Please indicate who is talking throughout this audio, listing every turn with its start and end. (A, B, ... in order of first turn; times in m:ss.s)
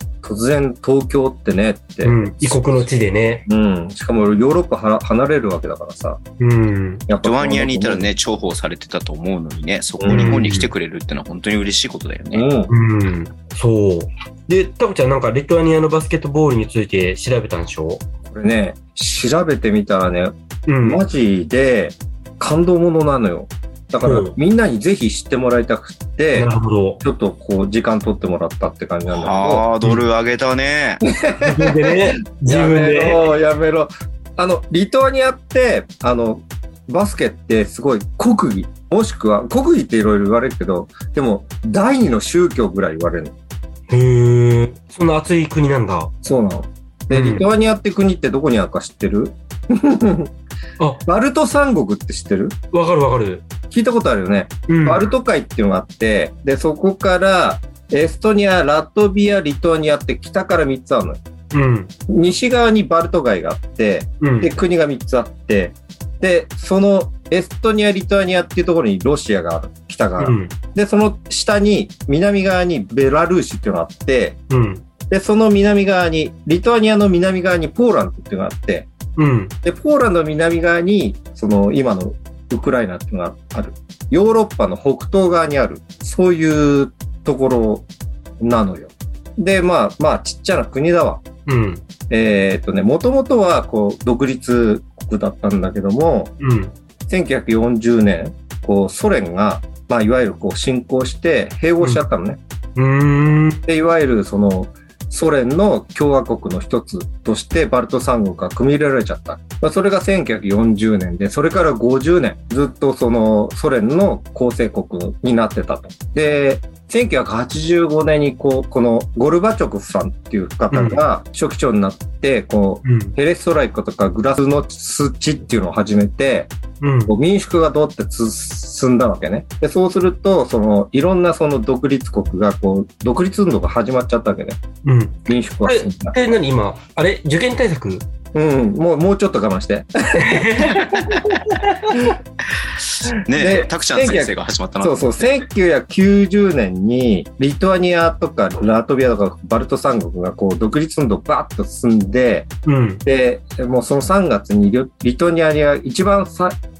0:00.2-0:02.9 A
0:02.0-0:03.4 B
0:03.5-0:06.2 A
0:06.4-0:07.0 B
0:07.1-0:08.1 A
0:07.2-0:12.4 C
0:10.0-0:10.4 A
0:10.1-0:10.7 B
0:12.3-0:12.7 A
0:12.7-0:18.0 B
0:18.3-0:26.5 A
0:20.7-0:21.0 B
0:24.0-0:24.3 B
0:26.3-0:27.0 B
0:27.0-0:29.6 A
0:29.1-0:31.0 C
0:31.0-0:43.3 A
0:31.4-0:33.3 B
0:43.9-0:46.1 B
0:46.2-0:50.3 A
0:47.1-0:47.4 B
0:51.0-0:52.5 A
0:52.7-0:53.4 B
0:53.7-1:01.2 A
0:54.7-0:55.1 B
1:01.5-1:01.9 B
1:02.1-1:14.4 A
1:04.2-1:04.5 B
1:10.2-1:10.5 B
1:14.5-1:14.8 B
1:15.1-1:18.9 A
1:19.2-1:19.5 B
1:19.6-1:27.9 A
1:28.4-1:31.2 A
1:31.5-1:31.8 B
1:32.1-1:36.3 A
1:36.4-1:36.7 B
1:37.1-1:42.4 A
1:42.8-1:43.6 B
1:43.7-2:06.5 A
2:00.7-2:01.0 B
2:02.8-2:03.1 B
2:06.8-2:07.1 B
2:07.1-2:14.6 A
2:14.8-2:18.0 B
2:15.3-2:16.1 A
2:18.3-2:22.1 A
2:20.2-2:21.9 B
2:23.0-2:25.3 C
2:23.3-2:32.5 A
2:32.6-2:33.0 B
2:33.0-2:36.5 A